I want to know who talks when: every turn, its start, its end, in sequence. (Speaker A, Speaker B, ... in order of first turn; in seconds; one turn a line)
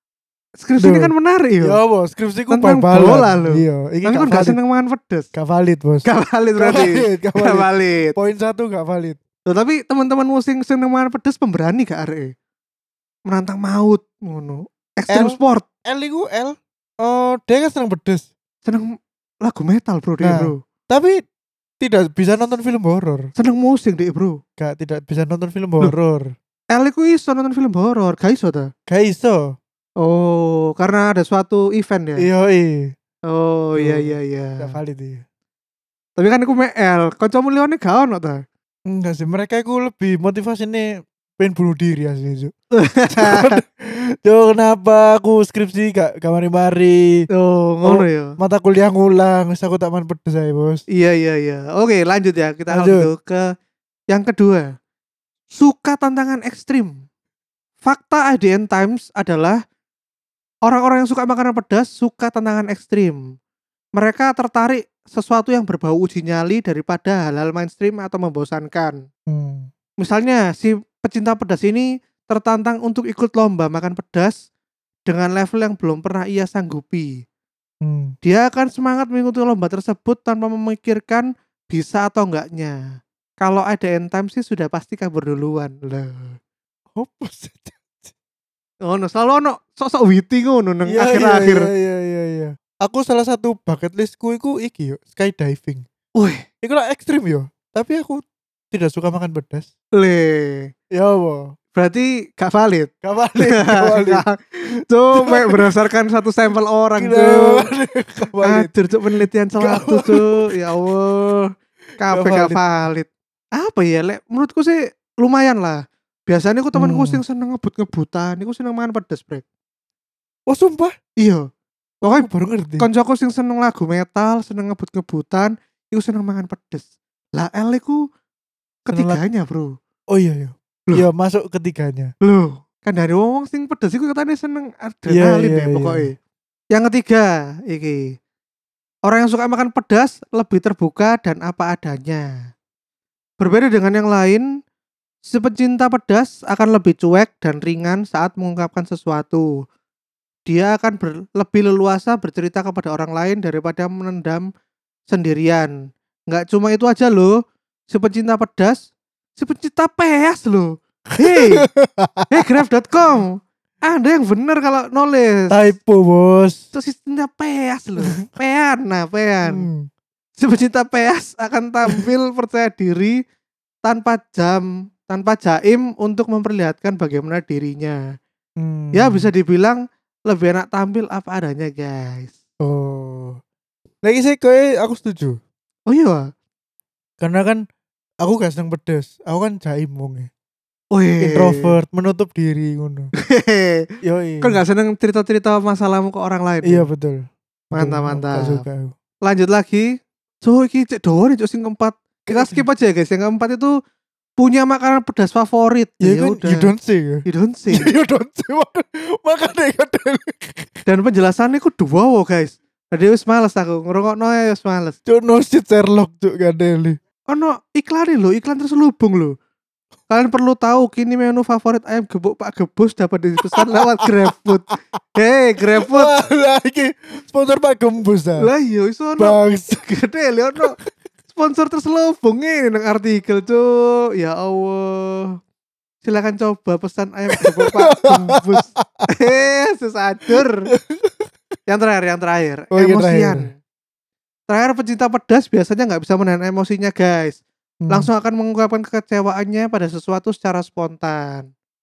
Speaker A: 0.6-1.8
Speaker B: 0.8-4.6
Speaker A: 2.5-5.3
Speaker B: 5.3-6.1
Speaker A: 6.0-8.2
Speaker B: 6.6-9.2
Speaker A: 9.5-12.3
Speaker A: 13.3-15.7
Speaker B: 15.1-18.3
Speaker A: 19.4-20.6
Speaker B: 20.2-21.2
Speaker B: 21.8-23.3
Speaker A: 23.4-24.4
Speaker B: 24.6-26.3
Speaker A: 26.7-28.7
Speaker B: 28.9-29.6
Speaker A: 30.0-32.3
Speaker B: 32.2-32.9
Speaker A: 33.3-34.8
Speaker B: 33.8-35.2
Speaker A: 36.2-38.4
Speaker B: 38.9-42.5
Speaker A: 42.8-43.6
Speaker B: 43.1-47.3
Speaker A: 47.4-48.4
Speaker B: 47.9-50.8
Speaker A: 51.0-53.4
Speaker B: 52.7-53.1
Speaker A: 54.1-54.7
Speaker A: 55.5-57.0
Speaker A: 57.8-59.6
Speaker A: 60.7-63.2
Speaker A: 64.0-69.0
Speaker B: 69.3-69.7
Speaker A: 70.0-74.4
Speaker A: 75.1-77.2
Speaker B: 77.8-78.1
Speaker A: 78.2-82.8
Speaker A: 83.4-86.4
Speaker B: 87.0-88.1
Speaker A: 88.9-91.7
Speaker B: 90.9-95.8
Speaker A: 96.2-96.4
Speaker B: 96.6-99.7
Speaker A: 100.0-100.7
Speaker B: 100.9-101.5
Speaker A: 101.8-107.7
Speaker B: 103.0-104.2
Speaker B: 105.2-105.6
Speaker B: 107.0-108.7
Speaker A: 108.4-119.4
Speaker B: 109.2-110.5
Speaker B: 112.1-112.7
Speaker B: 116.8-117.2
Speaker B: 120.5-120.9
Speaker A: 121.2-121.5
Speaker A: 122.0-122.3
Speaker B: 122.0-122.9
Speaker A: 122.8-128.0
Speaker A: 128.9-129.7
Speaker B: 128.9-129.2
Speaker B: 130.1-132.1
Speaker A: 132.2-136.1
Speaker B: 135.1-136.1
Speaker A: 136.7-138.0
Speaker A: 139.1-142.3
Speaker A: 143.4-144.4
Speaker A: 145.2-149.5
Speaker A: 150.5-154.5
Speaker A: 155.1-155.7
Speaker A: 156.3-157.3
Speaker A: 157.9-161.7
Speaker B: 161.2-162.5
Speaker A: 162.3-165.6
Speaker B: 165.5-166.6
Speaker A: 166.8-169.7
Speaker B: 169.5-169.9
Speaker A: 170.4-173.2
Speaker A: 173.8-178.0
Speaker B: 178.6-179.3
Speaker A: 178.9-182.4
Speaker B: 182.6-183.4
Speaker B: 184.0-185.4
Speaker A: 185.9-186.2
Speaker B: 187.2-187.6
Speaker B: 188.2-190.3
Speaker A: 190.9-191.7
Speaker B: 191.2-193.1
Speaker A: 193.3-193.9
Speaker B: 194.1-194.6
Speaker A: 194.4-196.9
Speaker B: 196.6-198.9
Speaker A: 197.8-198.6
Speaker A: 199.2-199.9
Speaker A: 200.4-203.7
Speaker B: 202.3-202.6
Speaker A: 204.4-206.7
Speaker B: 206.0-210.8
Speaker A: 207.3-207.9
Speaker A: 210.9-215.0
Speaker B: 215.1-217.0
Speaker A: 217.3-219.3
Speaker A: 220.1-226.1
Speaker B: 223.4-224.8
Speaker B: 225.8-228.5
Speaker A: 228.4-230.8
Speaker B: 229.2-229.9
Speaker B: 230.6-230.8
Speaker A: 231.3-235.4
Speaker A: 236.0-240.7
Speaker B: 237.4-239.1
Speaker B: 240.7-241.3
Speaker A: 241.7-243.5
Speaker B: 242.7-243.4
Speaker A: 244.5-251.5
Speaker B: 247.8-248.1